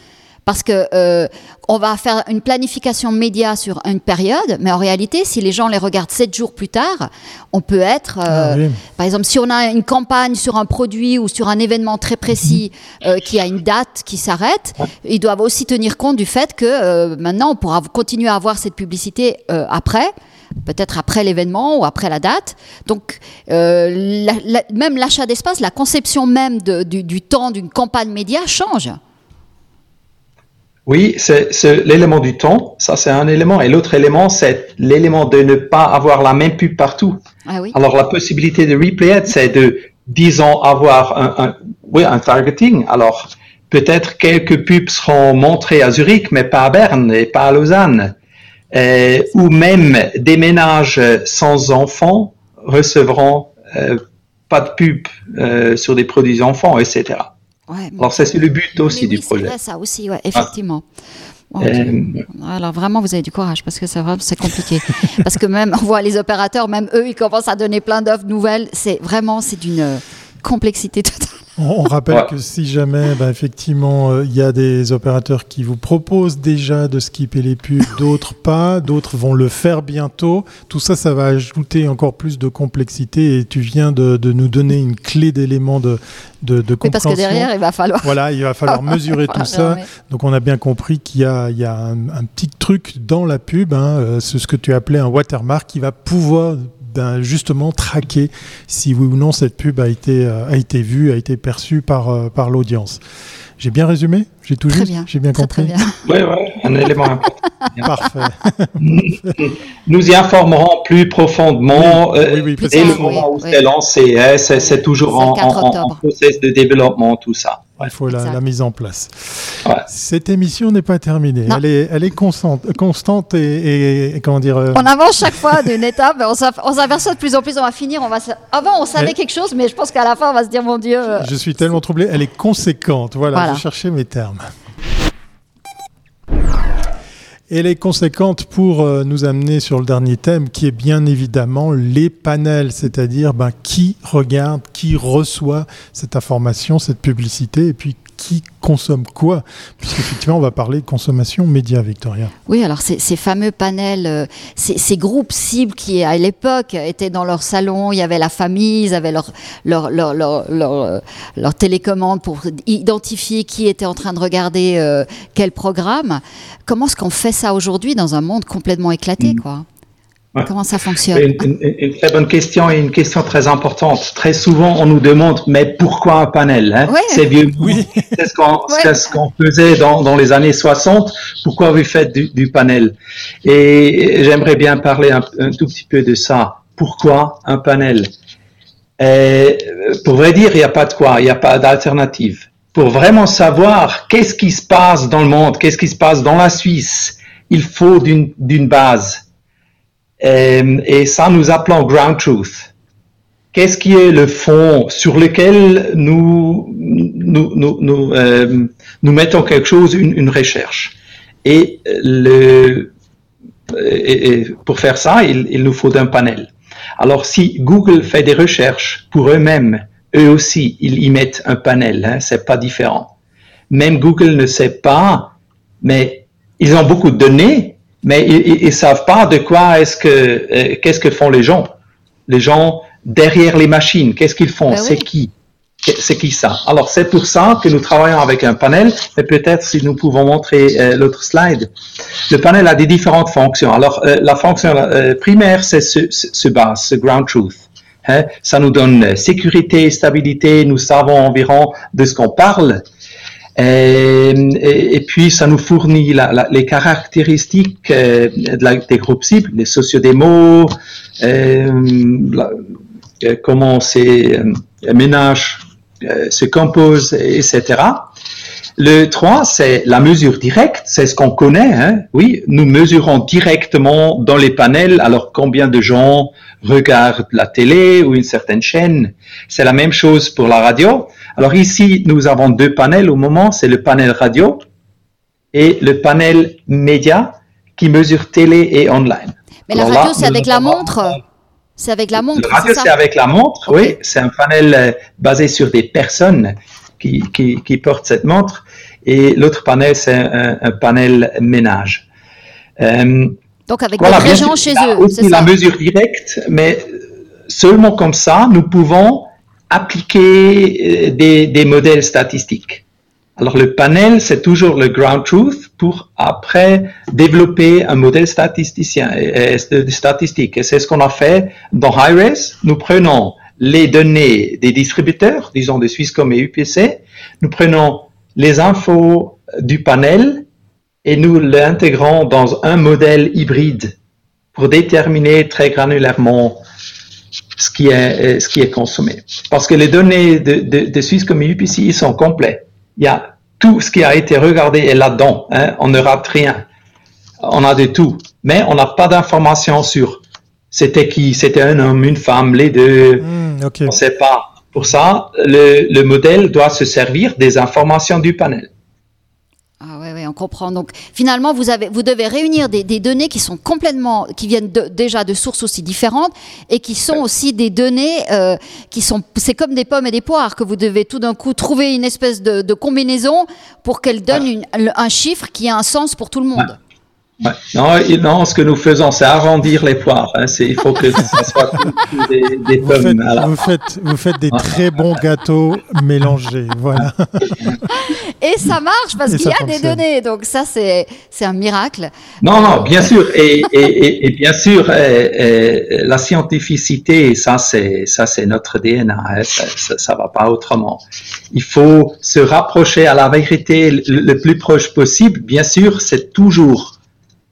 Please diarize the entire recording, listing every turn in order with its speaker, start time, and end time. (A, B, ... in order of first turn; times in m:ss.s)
0:00.5-0:20.1 A
0:08.3-0:08.8 B
0:20.6-0:29.0 A
0:30.9-0:37.2 C
0:37.5-0:37.8 A
0:37.7-0:48.1 C
0:48.7-0:57.3 C
0:57.7-0:58.3 A
0:58.0-0:59.5 C
0:58.9-1:00.8 A
1:01.5-1:11.4 A
1:01.6-1:02.2 C
1:11.6-1:27.5 B
1:26.8-1:28.1 A
1:28.0-1:43.0 B
1:28.7-1:29.9 A
1:43.6-1:45.8 B
1:44.7-1:46.0 A
1:46.1-1:47.9 C
1:47.8-1:49.4 B
1:48.8-1:57.9 C
1:51.7-1:53.2 B
1:52.6-1:53.6 A
1:54.6-1:56.0 A
1:57.8-2:04.9 B
2:04.8-2:11.3 A
2:11.2-2:14.5 B
2:13.3-2:13.6 A
2:17.5-2:32.3 B
2:32.5-2:49.6 A
2:50.4-2:51.4 A
2:51.1-3:08.1 C
2:56.9-2:57.2 A
2:57.6-2:58.1 B
2:58.7-2:58.9 A
3:09.0-3:19.2 C
3:20.2-3:22.7 C
3:23.5-3:32.9 C
3:33.7-3:43.1 C
3:43.7-3:51.8 C
3:52.3-3:55.3 C
3:54.7-3:55.0 A
3:55.8-4:01.7 C
4:02.3-4:12.8 C
4:13.6-4:22.6 C
4:23.2-4:28.1 C
4:28.8-4:44.6 C
4:45.5-4:51.2 C
4:49.7-4:51.2 A
4:51.8-4:52.9 A
4:52.3-5:02.1 C
5:02.8-5:03.4 C
5:03.7-5:05.5 A
5:04.0-5:07.0 C
5:07.5-5:12.8 C
5:13.4-5:30.5 C
5:31.0-5:34.0 C
5:34.5-5:36.6 C
5:37.6-5:46.6 C
5:47.4-5:53.2 C
5:53.2-5:54.0 B
5:53.9-5:58.7 C
5:59.8-6:16.8 A
6:17.4-6:23.5 C
6:22.8-6:27.9 B
6:27.0-6:27.8 C
6:28.0-6:33.1 A
6:29.3-6:30.0 B
6:32.4-6:47.0 C